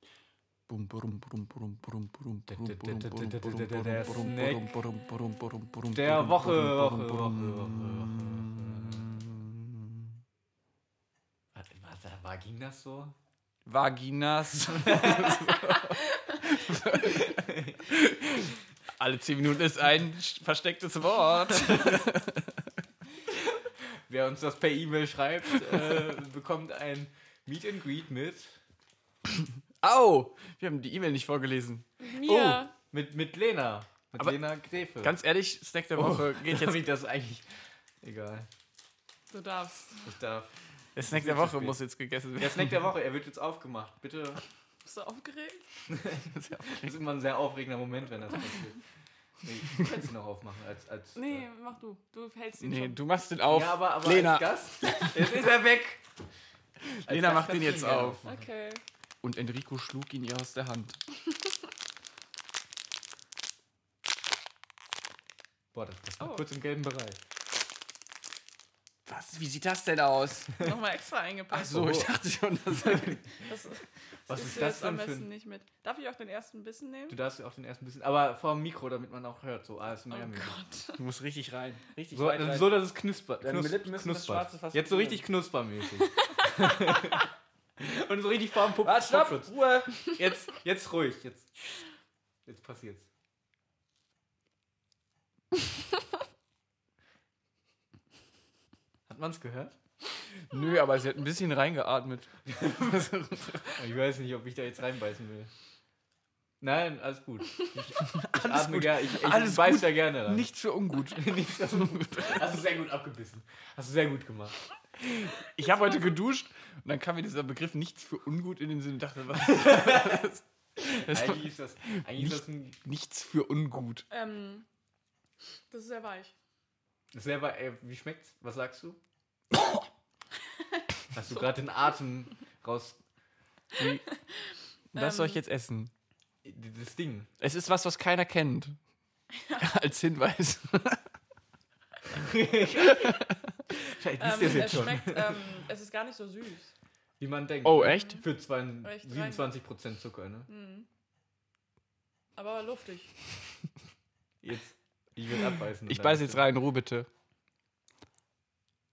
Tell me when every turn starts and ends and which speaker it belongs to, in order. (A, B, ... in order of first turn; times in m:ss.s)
0:00.7-0:10.1 A
0:02.5-0:04.8 B
0:05.9-0:09.1 B
0:11.5-0:13.1 B
0:13.7-0:22.7 A
0:14.7-0:15.4 B
0:17.0-0:17.8 B
0:23.3-0:28.6 B
0:29.8-0:31.9 A
0:32.0-0:32.7 C
0:32.3-0:35.2 B
0:35.0-0:36.9 A
0:36.0-0:37.5 B
0:38.0-0:38.5 B
0:39.3-0:40.1 C
0:40.0-0:41.8 B
0:41.0-0:42.8 A
0:42.4-0:44.4 B
0:44.8-0:45.7 C
0:45.9-0:48.8 B
0:46.3-0:47.0 A
0:49.4-0:51.4 B
0:51.1-0:53.0 C
0:52.6-0:55.2 A
0:53.5-0:56.0 B
0:56.9-0:58.2 A
0:57.0-0:58.4 B
0:58.2-0:58.8 C
0:59.2-1:01.0 A
1:05.7-1:07.2 B
1:09.0-1:10.6 A
1:10.6-1:12.0 C
1:11.5-1:13.3 A
1:11.7-1:12.1 B
1:13.4-1:17.2 C
1:14.3-1:15.3 B
1:17.1-1:20.6 B
1:20.1-1:21.0 C
1:21.0-1:22.9 A
1:22.1-1:29.6 B
1:23.4-1:25.3 A
1:26.1-1:27.1 C
1:28.8-1:30.5 A
1:30.2-1:31.8 B
1:32.4-1:33.1 B
1:39.1-1:39.8 B
1:40.5-1:43.8 A
1:43.8-1:45.5 B
1:46.6-1:50.5 B
1:48.0-1:52.4 A
1:51.1-1:54.6 B
1:55.0-2:04.0 A
1:59.5-2:00.3 B
2:00.9-2:02.8 B
2:04.1-2:04.7 C
2:05.7-2:06.3 C
2:07.1-2:09.0 B
2:11.1-2:13.0 B
2:13.8-2:14.0 A
2:14.9-2:15.4 C
2:14.9-2:15.9 A
2:16.4-2:17.3 B
2:17.4-2:18.8 A
2:19.6-2:21.0 A
2:22.1-2:23.2 B
2:22.8-2:23.3 A
2:23.8-2:25.5 B
2:24.2-2:26.7 C
2:27.2-2:30.5 B
2:27.6-2:28.2 A
2:28.8-2:29.5 C
2:30.5-2:30.9 C
2:32.4-2:33.2 C
2:34.4-2:36.4 B
2:35.9-2:37.1 A